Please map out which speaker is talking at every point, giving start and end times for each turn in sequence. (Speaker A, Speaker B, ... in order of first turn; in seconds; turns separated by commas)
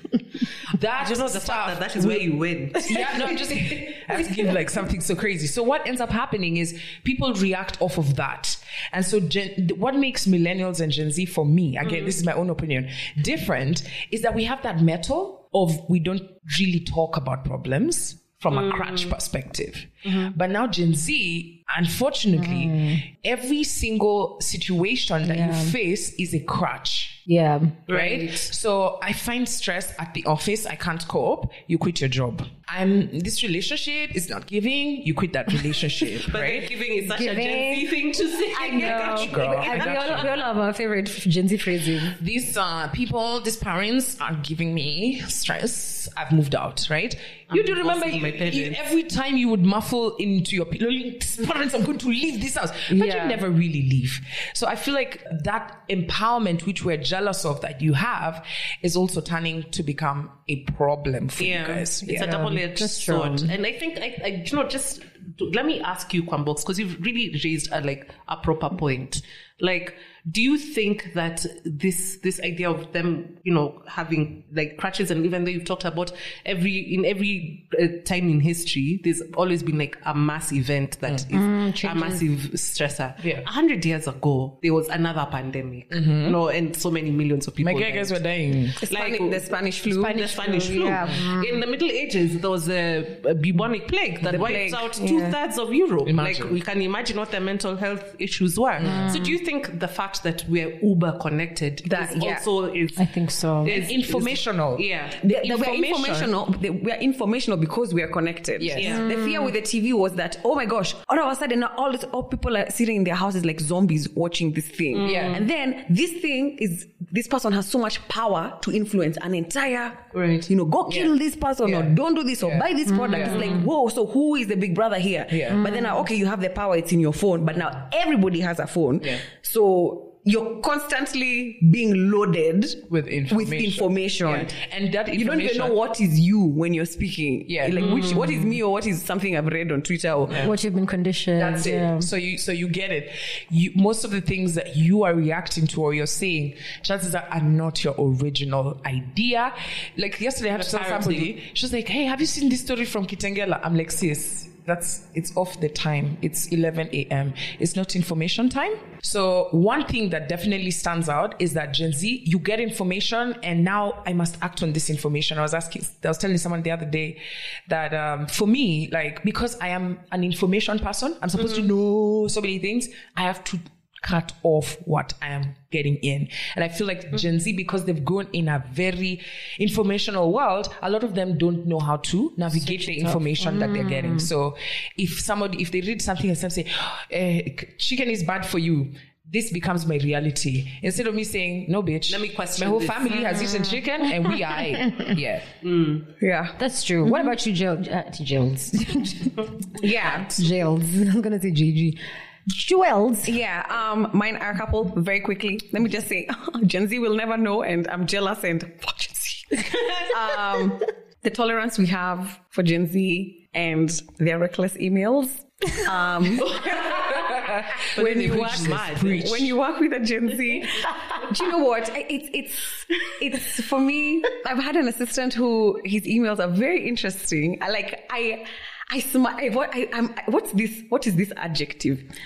Speaker A: 0.7-27.2, Speaker B: 1.0-3.5, Speaker B: 11.8-12.2, Speaker B: 18.5-19.1, Speaker B: 20.1-20.3, Speaker C: 22.4-23.0, Speaker C: 25.2-25.7, Speaker C: 27.3-27.8, Speaker B: 27.9-28.5, Speaker A: 27.9-36.7, Speaker B: 36.1-40.3, Speaker C: 37.0-37.9, Speaker C: 38.5-42.2, Speaker A: 38.8-40.4, Speaker A: 42.1-62.5, Speaker B: 47.5-48.8, Speaker C: 52.9-53.4, Speaker B: 61.4-88.2, Speaker C: 62.1-63.5, Speaker C: 81.3-82.2, Speaker A: 83.2-83.5, Speaker A: 85.9-86.4, Speaker A: 87.6-88.8, Speaker B: 88.7-103.1, Speaker D: 88.8-90.3, Speaker C: 90.2-91.5, Speaker D: 94.2-94.9, Speaker C: 95.0-95.3, Speaker A: 96.0-96.5, Speaker A: 98.8-99.2, Speaker C: 98.8-99.3, Speaker D: 101.8-102.4, Speaker C: 103.0-103.8, Speaker B: 103.6-105.3, Speaker A: 103.7-106.3, Speaker D: 105.2-134.6, Speaker A: 108.6-109.0, Speaker B: 108.8-109.1, Speaker C: 108.9-109.5, Speaker B: 114.9-115.4, Speaker A: 115.0-115.4, Speaker B: 120.1-120.5, Speaker A: 120.9-123.4, Speaker C: 122.9-123.5, Speaker B: 123.2-123.6, Speaker A: 125.3-125.7, Speaker C: 125.6-125.9, Speaker A: 132.9-135.8, Speaker D: 135.1-140.5, Speaker A: 137.5-137.8, Speaker B: 137.8-138.6, Speaker C: 140.4-142.1, Speaker A: 141.4-195.5, Speaker B: 150.6-151.3, Speaker B: 182.6-183.2, Speaker C: 183.6-184.2, Speaker B: 192.1-193.4, Speaker B: 195.6-196.1, Speaker D: 196.2-196.6, Speaker C: 196.6-203.4, Speaker D: 199.8-200.4, Speaker D: 203.2-232.1, Speaker A: 216.7-219.6, Speaker B: 217.9-219.3